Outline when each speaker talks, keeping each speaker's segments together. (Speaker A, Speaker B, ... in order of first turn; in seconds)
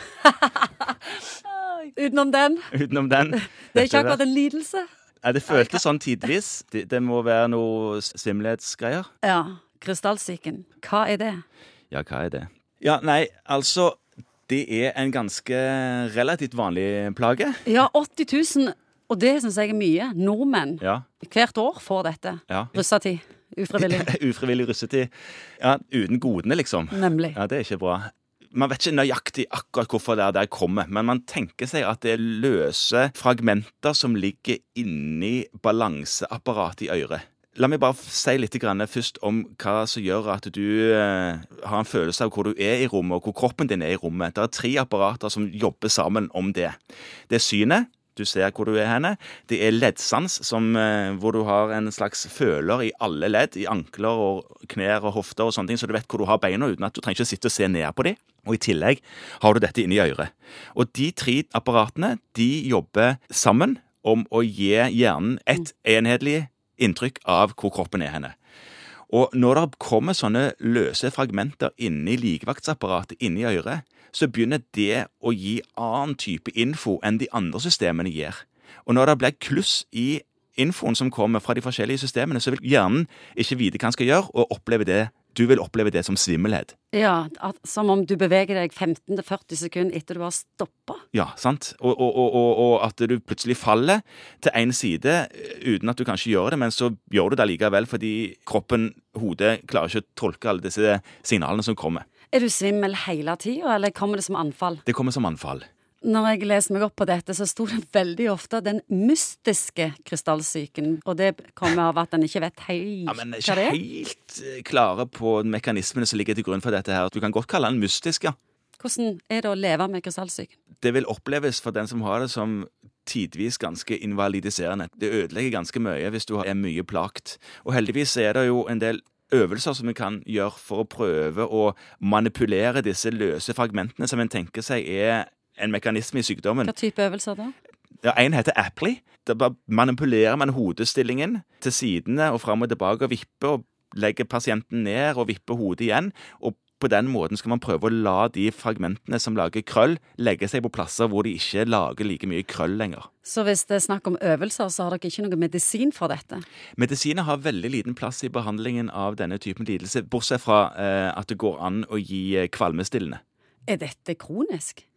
Speaker A: 0.2-0.9, 1.5-2.7, 3.3-4.9, 5.5-5.8, 9.2-11.4, 17.6-24.1, 26.9-27.4, 86.9-91.0, 102.3-104.8, 106.0-113.8, 118.8-120.5, 136.7-137.6, 153.2-156.4, 163.7-164.8
Speaker B: 2.7-4.2, 5.2-9.1, 11.9-17.6, 22.5-22.8, 23.8-46.8, 47.3-68.3, 69.1-86.8, 91.1-102.1, 104.9-105.6, 113.1-118.3, 120.8-136.7, 138.0-153.1, 156.8-163.2